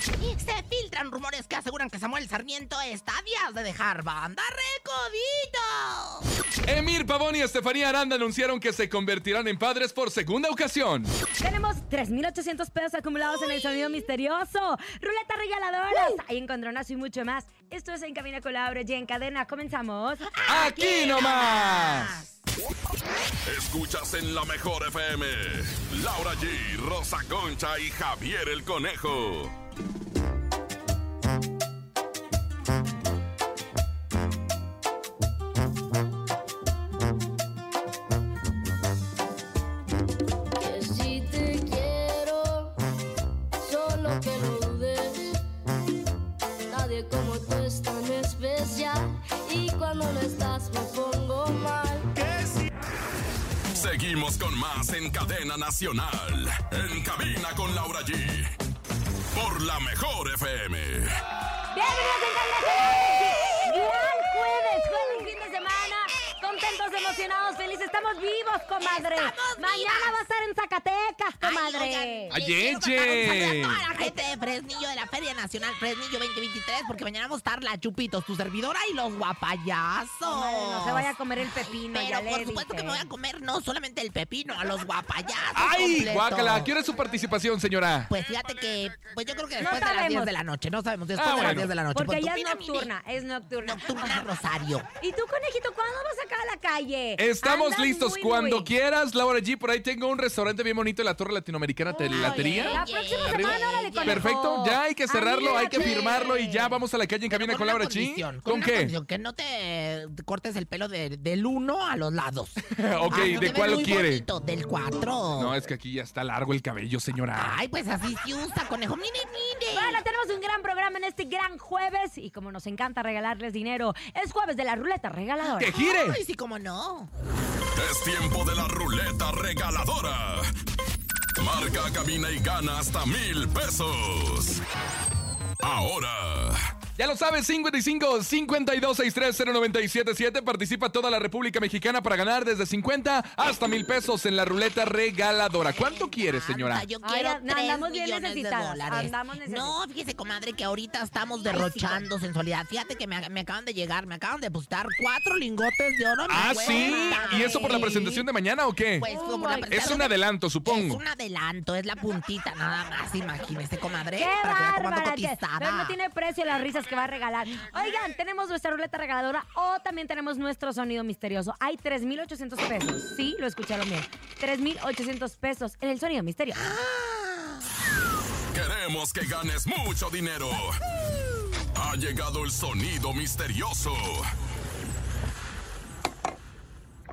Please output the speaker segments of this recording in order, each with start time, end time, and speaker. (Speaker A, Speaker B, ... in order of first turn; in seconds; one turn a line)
Speaker A: 0.2-6.3
Speaker B: 6.7-11.1
Speaker C: 11.4-20.3
Speaker A: 20.4-22.4
Speaker B: 20.5-22.2
Speaker D: 23.5-29.5
Speaker E: 40.6-42.7
Speaker E: 43.6-45.4
Speaker E: 46.7-52.1
Speaker D: 53.7-58.5
Speaker D: 59.3-61.2
Speaker C: 61.7-72.3
Speaker A: 68.8-70.2
Speaker A: 71.4-86.7
Speaker B: 72.3-73.8
Speaker C: 80.3-83.0
Speaker B: 85.5-88.1
Speaker A: 88.1-92.9
Speaker C: 89.6-90.3
Speaker B: 91.2-91.7
Speaker C: 91.9-94.2
Speaker A: 93.6-94.9
Speaker C: 95.0-98.7
Speaker B: 97.2-108.9
Speaker C: 101.9-106.8
Speaker A: 102.1-104.3
Speaker A: 105.7-106.1
Speaker A: 107.3-115.6
Speaker B: 112.7-114.2
Speaker C: 113.0-113.6
Speaker B: 115.4-117.6
Speaker A: 117.3-120.0
Speaker C: 119.7-125.8
Speaker A: 125.5-127.1
Speaker B: 125.6-126.2
Speaker D: 127.8-130.5
Speaker D: 131.4-134.6
Speaker D: 135.6-136.6
Speaker B: 137.0-146.9
Speaker A: 145.7-158.2
Speaker C: 147.0-149.7
Speaker C: 151.5-152.1
Speaker B: 156.3-159.1
Speaker C: 156.6-157.9
Speaker A: 159.0-166.0
Speaker C: 159.0-160.0
Speaker B: 159.7-161.0
Speaker C: 164.2-176.7
Speaker A: 176.5-177.7
Speaker D: 178.5-180.8
Speaker D: 181.8-184.3